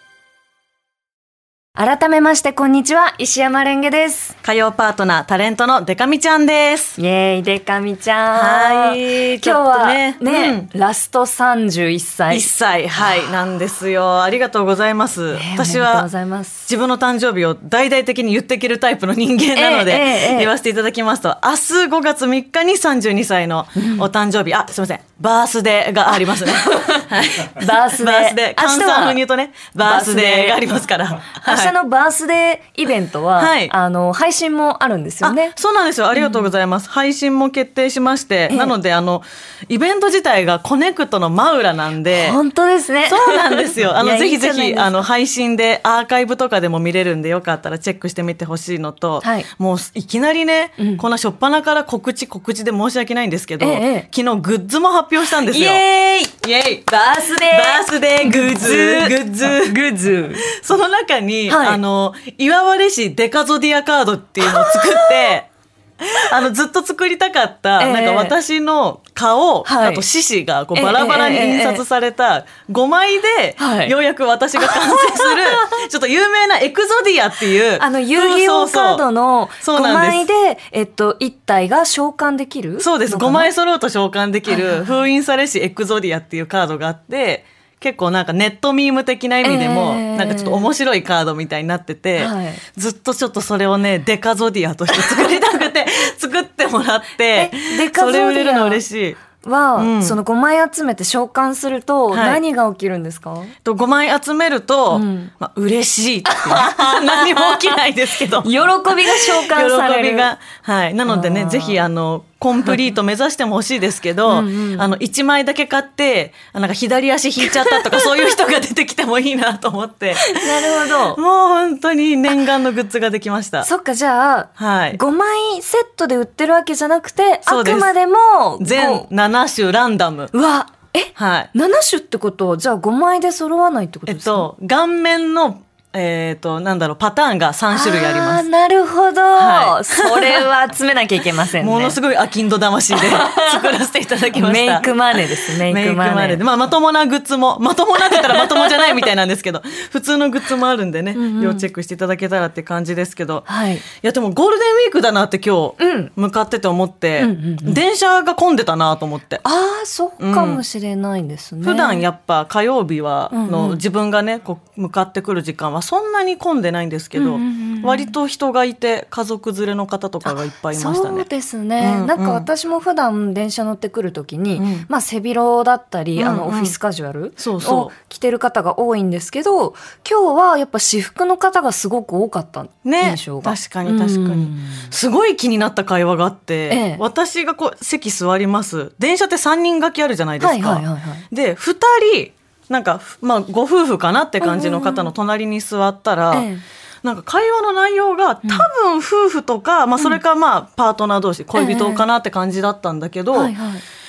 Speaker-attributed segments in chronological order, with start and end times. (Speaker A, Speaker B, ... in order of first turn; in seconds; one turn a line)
Speaker A: 1.8-4.4
Speaker B: 4.4-7.0
Speaker A: 7.0-12.5
Speaker B: 8.3-10.7
Speaker B: 12.3-16.1
Speaker A: 15.3-16.7
Speaker B: 16.7-31.7
Speaker A: 19.6-20.5
Speaker A: 23.8-24.1
Speaker A: 26.3-29.2
Speaker A: 29.8-30.6
Speaker A: 31.4-35.5
Speaker B: 33.4-33.7
Speaker B: 35.2-42.4
Speaker A: 36.1-36.5
Speaker A: 42.1-45.0
Speaker B: 43.1-55.8
Speaker A: 49.2-49.5
Speaker A: 53.6-54.1
Speaker A: 55.3-60.4
Speaker B: 56.5-56.8
Speaker B: 57.4-59.8
Speaker B: 60.4-65.5
Speaker A: 61.5-61.8
Speaker A: 64.4-65.1
Speaker B: 66.0-79.0
Speaker A: 67.8-68.4
Speaker A: 69.7-70.0
Speaker A: 70.7-71.8
Speaker A: 73.6-73.9
Speaker A: 74.6-75.7
Speaker A: 77.8-83.5
Speaker B: 79.6-80.2
Speaker B: 82.8-99.2
Speaker A: 84.5-85.0
Speaker A: 89.4-90.7
Speaker A: 92.2-92.6
Speaker A: 97.3-98.8
Speaker A: 99.4-103.6
Speaker B: 99.8-100.2
Speaker B: 102.1-102.4
Speaker B: 103.7-123.7
Speaker A: 104.9-105.3
Speaker A: 106.3-107.8
Speaker A: 108.4-110.3
Speaker A: 111.1-111.8
Speaker A: 114.3-114.9
Speaker A: 117.5-118.0
Speaker A: 120.2-121.2
Speaker A: 123.6-129.1
Speaker B: 124.6-125.0
Speaker B: 127.5-127.9
Speaker B: 128.6-130.3
Speaker A: 130.3-134.5
Speaker B: 131.2-131.5
Speaker B: 134.1-138.5
Speaker A: 137.7-142.0
Speaker B: 139.4-140.5
Speaker B: 141.6-159.4
Speaker A: 142.9-143.7
Speaker A: 144.3-146.4
Speaker A: 148.0-149.0
Speaker A: 151.2-151.7
Speaker A: 153.5-153.8
Speaker A: 155.8-156.1
Speaker A: 157.2-157.8
Speaker A: 159.4-162.0
Speaker B: 160.2-160.6
Speaker B: 161.6-171.3
Speaker A: 163.3-163.8
Speaker A: 167.2-168.1
Speaker A: 170.3-184.9
Speaker B: 171.8-172.5
Speaker B: 174.6-174.9
Speaker B: 176.2-176.8
Speaker B: 177.4-177.9
Speaker B: 182.8-196.5
Speaker A: 186.7-187.0
Speaker A: 190.4-191.3
Speaker A: 194.4-195.1
Speaker A: 196.3-196.6
Speaker B: 197.0-203.5
Speaker A: 201.6-202.1
Speaker A: 203.3-203.8